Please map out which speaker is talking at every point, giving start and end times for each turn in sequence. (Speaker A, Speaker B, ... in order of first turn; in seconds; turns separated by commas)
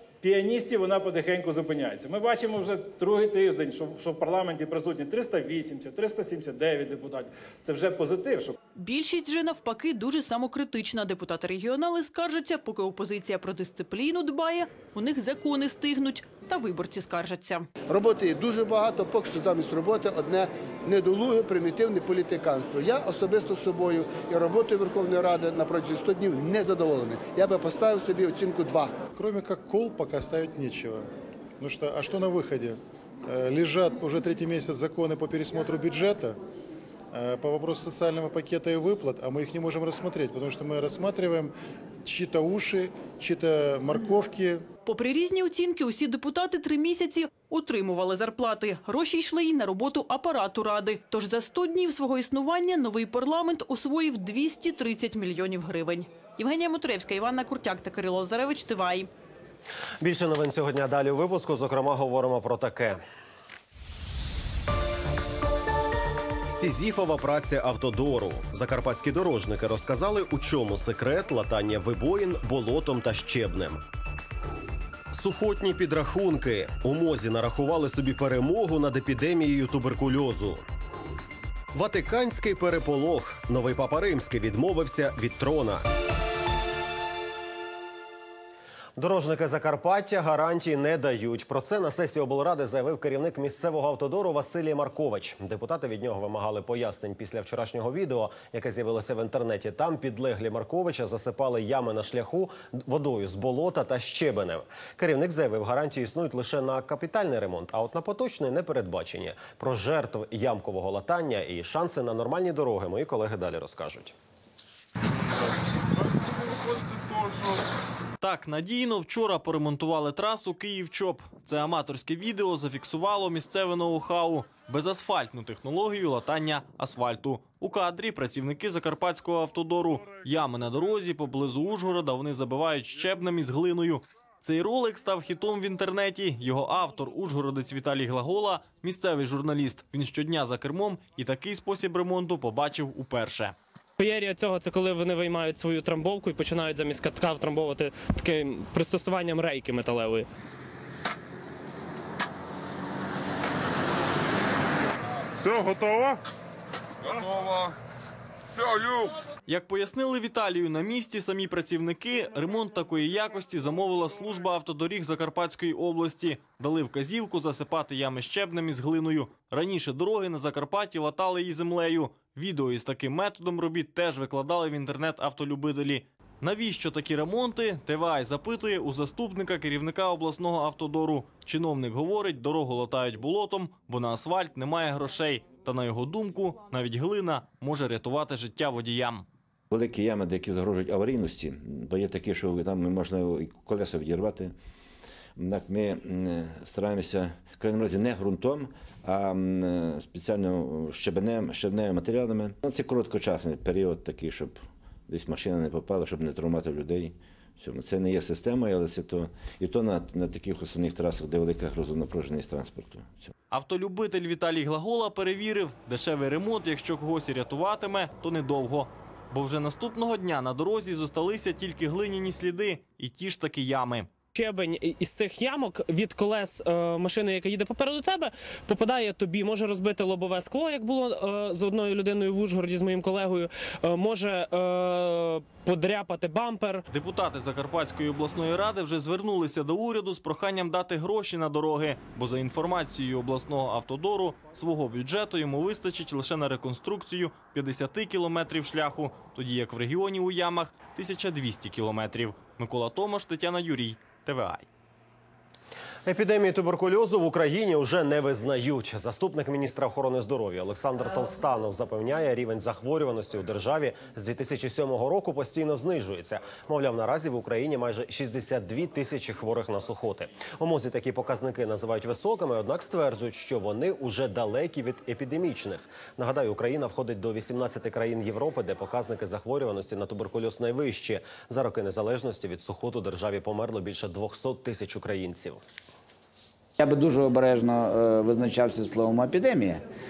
Speaker A: 0.2-8.5, Speaker B: 8.7-17.7, Speaker C: 17.9-29.0, Speaker D: 29.1-31.1, Speaker D: 31.6-36.4, Speaker D: 37.1-41.5, Speaker D: 42.0-44.6, Speaker B: 44.8-59.1, Speaker E: 60.0-63.0, Speaker E: 66.5-73.8, Speaker E: 75.1-80.6, Speaker E: 81.7-85.8, Speaker E: 89.0-114.1, Speaker F: 118.2-143.5, Speaker G: 144.0-150.2, Speaker F: 159.5-189.2, Speaker H: 189.7-194.5, Speaker H: 195.3-213.3, Speaker F: 213.5-224.1, Speaker G: 224.3-236.8, Speaker F: 236.9-254.7, Speaker E: 256.0-285.6, Speaker I: 286.8-289.8